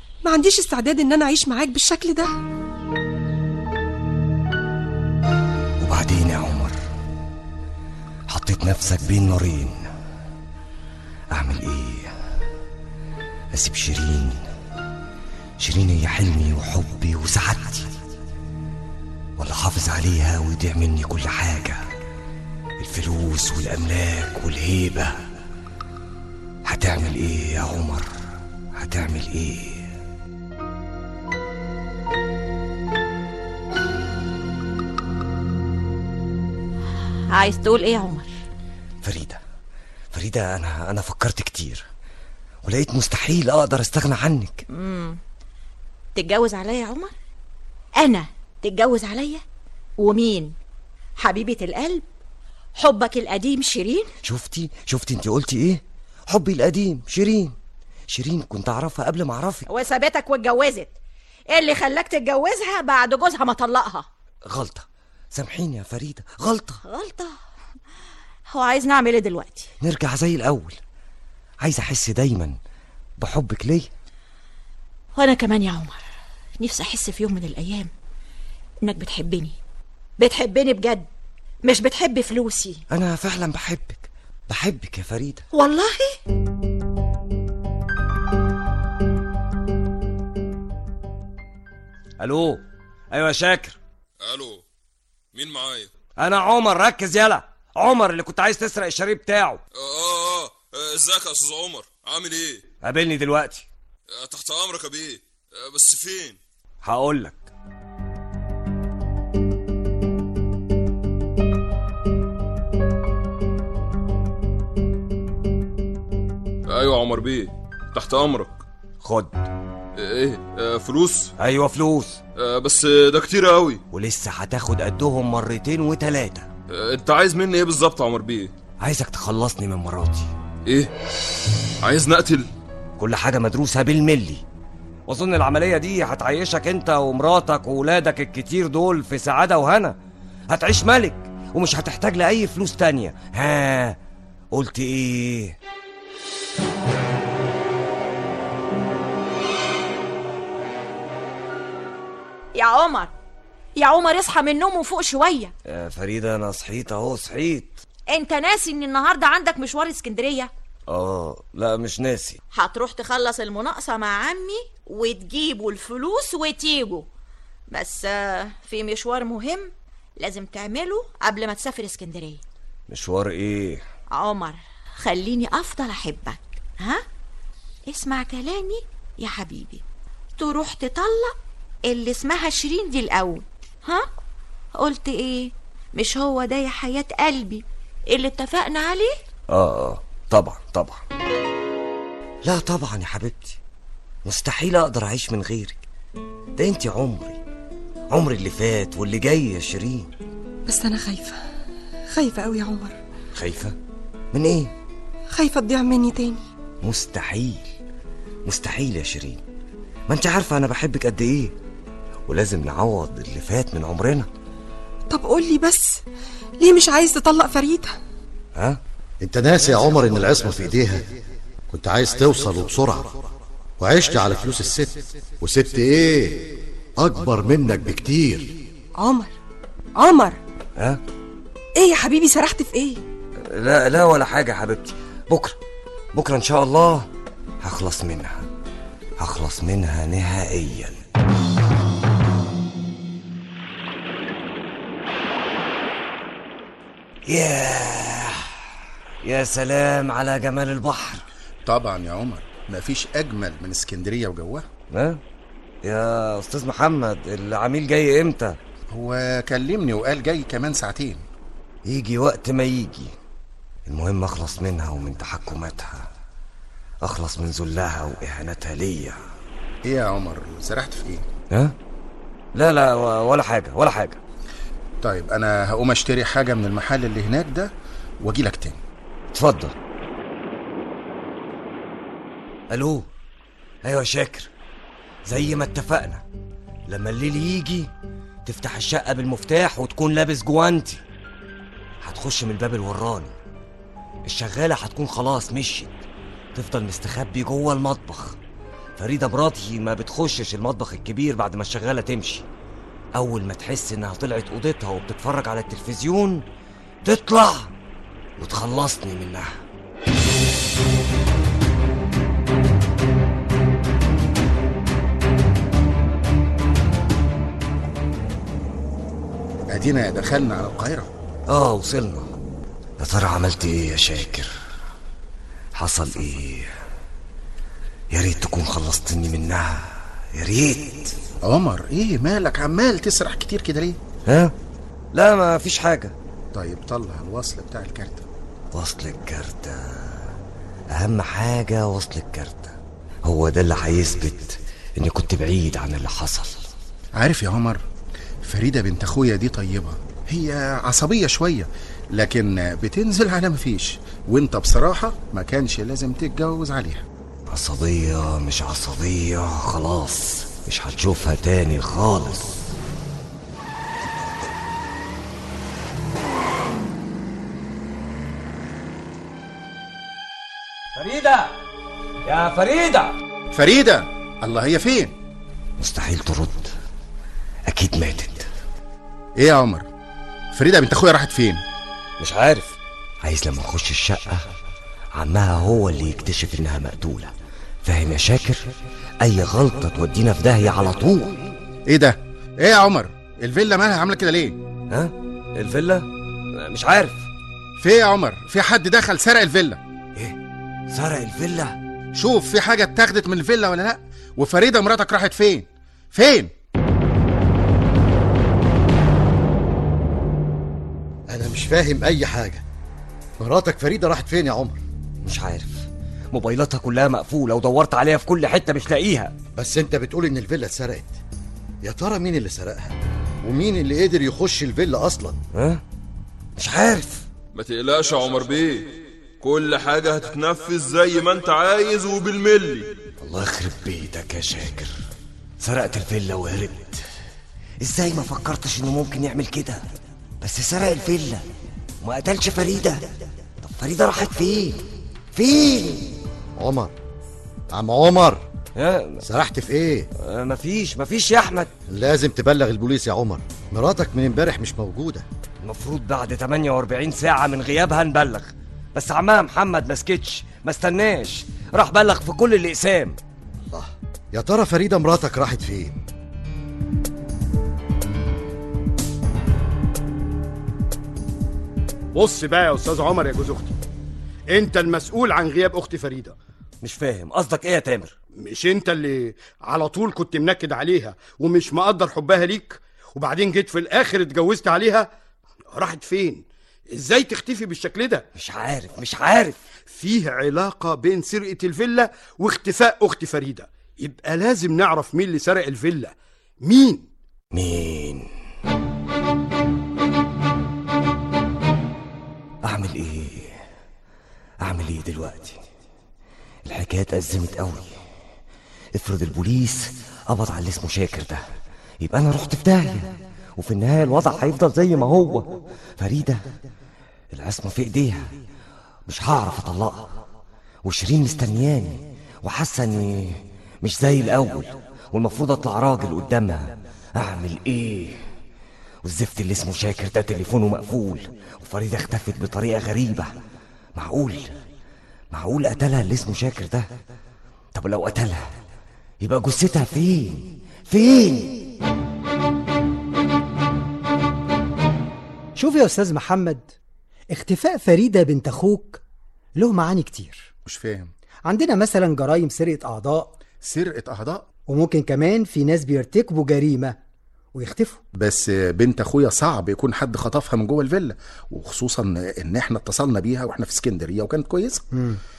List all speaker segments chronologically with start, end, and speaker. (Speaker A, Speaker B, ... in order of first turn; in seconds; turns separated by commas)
Speaker A: 0.2-2.3, Speaker B: 5.8-6.8, Speaker B: 8.3-9.9, Speaker B: 11.3-12.1, Speaker B: 13.5-14.4, Speaker B: 15.6-17.9, Speaker B: 19.4-21.8, Speaker B: 22.8-25.2, Speaker B: 26.6-28.1, Speaker B: 28.7-29.9, Speaker C: 37.3-38.3, Speaker B: 39.0-39.4, Speaker B: 40.1-41.9, Speaker B: 42.6-44.6, Speaker C: 44.7-45.2, Speaker C: 46.1-47.1, Speaker C: 48.0-49.4, Speaker C: 50.0-50.5, Speaker C: 51.2-52.0, Speaker C: 52.8-54.1, Speaker B: 54.2-57.5, Speaker B: 58.1-59.7, Speaker C: 59.7-60.9, Speaker C: 61.5-64.1, Speaker B: 64.5-66.8, Speaker C: 66.8-67.3, Speaker C: 68.5-69.7, Speaker B: 69.8-70.8, Speaker B: 71.6-72.6, Speaker B: 73.2-73.9, Speaker C: 75.2-76.0, Speaker C: 76.6-77.9, Speaker C: 78.8-79.6, Speaker C: 80.2-81.1, Speaker C: 81.6-82.8, Speaker B: 82.9-85.5, Speaker C: 85.5-86.2, Speaker B: 92.2-93.8, Speaker D: 94.2-94.6, Speaker D: 95.3-95.9, Speaker B: 96.2-99.6, Speaker D: 99.8-102.7, Speaker B: 102.8-103.7, Speaker D: 104.1-106.4, Speaker B: 106.8-107.5, Speaker D: 116.7-118.6, Speaker B: 119.0-119.5, Speaker D: 120.0-121.3, Speaker B: 121.4-122.2, Speaker D: 122.4-123.8, Speaker B: 123.9-126.5, Speaker D: 126.7-128.5, Speaker B: 128.8-130.3, Speaker D: 130.7-130.9, Speaker D: 131.8-132.5, Speaker B: 133.0-134.4, Speaker B: 135.1-140.0, Speaker B: 140.5-144.0, Speaker B: 144.5-145.6, Speaker C: 152.6-153.1, Speaker C: 153.8-155.5, Speaker B: 155.7-157.8, Speaker C: 158.1-160.5, Speaker B: 160.9-162.4, Speaker C: 162.5-167.1, Speaker C: 167.7-172.4, Speaker B: 172.9-173.8, Speaker C: 174.1-177.0, Speaker C: 177.9-179.8, Speaker C: 180.4-184.1, Speaker C: 184.8-189.2, Speaker B: 189.5-191.0, Speaker B: 192.4-193.6, Speaker B: 194.2-195.8, Speaker B: 196.6-197.4, Speaker B: 198.1-200.1, Speaker A: 200.7-201.4, Speaker A: 202.1-203.0, Speaker B: 203.3-203.8, Speaker B: 204.3-204.7, Speaker A: 205.3-206.4, Speaker B: 206.8-207.7, Speaker B: 208.5-209.4, Speaker B: 210.1-211.5, Speaker B: 212.3-214.3, Speaker A: 215.1-216.0, Speaker A: 216.6-218.0, Speaker E: 219.2-221.1, Speaker E: 221.7-223.2, Speaker E: 223.8-228.6, Speaker A: 229.0-229.3, Speaker A: 230.0-230.4, Speaker A: 231.8-233.0, Speaker B: 233.4-235.6, Speaker B: 236.1-237.1, Speaker B: 237.6-238.5, Speaker B: 239.2-241.0, Speaker B: 247.3-248.7, Speaker B: 249.2-251.2, Speaker F: 251.7-254.7, Speaker B: 254.9-255.2, Speaker B: 255.8-258.6, Speaker F: 258.9-261.2, Speaker B: 261.9-263.1, Speaker B: 263.9-266.1, Speaker B: 267.0-269.2, Speaker F: 269.8-271.2, Speaker B: 272.5-274.2, Speaker F: 275.0-278.8, Speaker B: 279.3-279.8, Speaker B: 282.7-283.1, Speaker B: 283.8-284.5, Speaker B: 285.3-286.2, Speaker B: 286.9-287.9, Speaker B: 288.5-291.0, Speaker B: 292.0-293.4, Speaker B: 294.2-296.0, Speaker B: 296.6-298.4, Speaker B: 299.0-302.5, Speaker B: 303.1-306.4, Speaker B: 307.0-307.7, Speaker B: 308.4-309.6, Speaker F: 319.7-321.1, Speaker B: 321.5-322.3, Speaker B: 323.0-324.5, Speaker B: 325.8-326.7, Speaker B: 328.1-331.2, Speaker F: 331.4-334.0, Speaker B: 334.3-334.5, Speaker B: 335.1-336.1, Speaker F: 336.5-338.3, Speaker B: 338.7-340.3, Speaker B: 340.9-346.7, Speaker F: 347.2-347.8, Speaker F: 348.4-357.1, Speaker B: 357.5-362.6, Speaker B: 370.9-371.6, Speaker B: 372.2-373.2, Speaker F: 373.5-375.1, Speaker B: 375.8-376.7, Speaker B: 377.7-378.5, Speaker F: 379.4-379.9, Speaker F: 380.5-381.6, Speaker B: 382.2-384.4, Speaker B: 385.1-387.3, Speaker B: 387.9-388.7, Speaker B: 389.2-391.4, Speaker F: 391.9-394.6, Speaker B: 394.9-397.3, Speaker F: 397.8-399.8, Speaker B: 400.9-401.8, Speaker F: 402.1-406.5, Speaker E: 411.3-412.6, Speaker E: 413.4-414.8, Speaker B: 415.2-419.3, Speaker E: 419.6-421.2, Speaker E: 421.8-425.4, Speaker B: 425.5-425.8, Speaker B: 426.6-427.3, Speaker D: 427.5-432.9, Speaker B: 433.2-435.0, Speaker B: 435.6-437.1, Speaker B: 437.8-439.9, Speaker B: 440.4-441.5, Speaker B: 442.0-443.1, Speaker B: 443.6-446.1, Speaker E: 446.6-446.9, Speaker E: 447.7-448.5, Speaker B: 448.8-449.2, Speaker E: 449.2-450.1, Speaker B: 450.2-451.7, Speaker E: 451.9-455.3, Speaker B: 455.6-463.2, Speaker E: 463.7-466.0, Speaker G: 472.1-473.8, Speaker G: 474.5-476.4, Speaker B: 476.8-478.1, Speaker G: 478.4-485.1, Speaker G: 485.7-488.2, Speaker B: 488.4-489.6, Speaker G: 489.9-497.1, Speaker B: 497.5-498.3, Speaker B: 502.6-503.6, Speaker B: 504.6-505.6, Speaker B: 506.7-507.9, Speaker B: 508.9-511.4, Speaker B: 512.0-516.5, Speaker B: 517.3-518.3, Speaker B: 519.1-520.1, Speaker B: 520.8-528.2, Speaker B: 529.0-533.3, Speaker B: 534.0-534.5, Speaker B: 535.3-536.9, Speaker B: 537.7-538.5, Speaker B: 539.2-541.6, Speaker H: 545.6-546.7, Speaker H: 547.3-549.0, Speaker H: 549.6-550.5, Speaker F: 550.6-551.1, Speaker H: 551.5-553.3, Speaker F: 553.6-554.5, Speaker H: 554.7-557.0, Speaker H: 557.5-558.0, Speaker F: 558.1-564.8, Speaker H: 564.9-565.2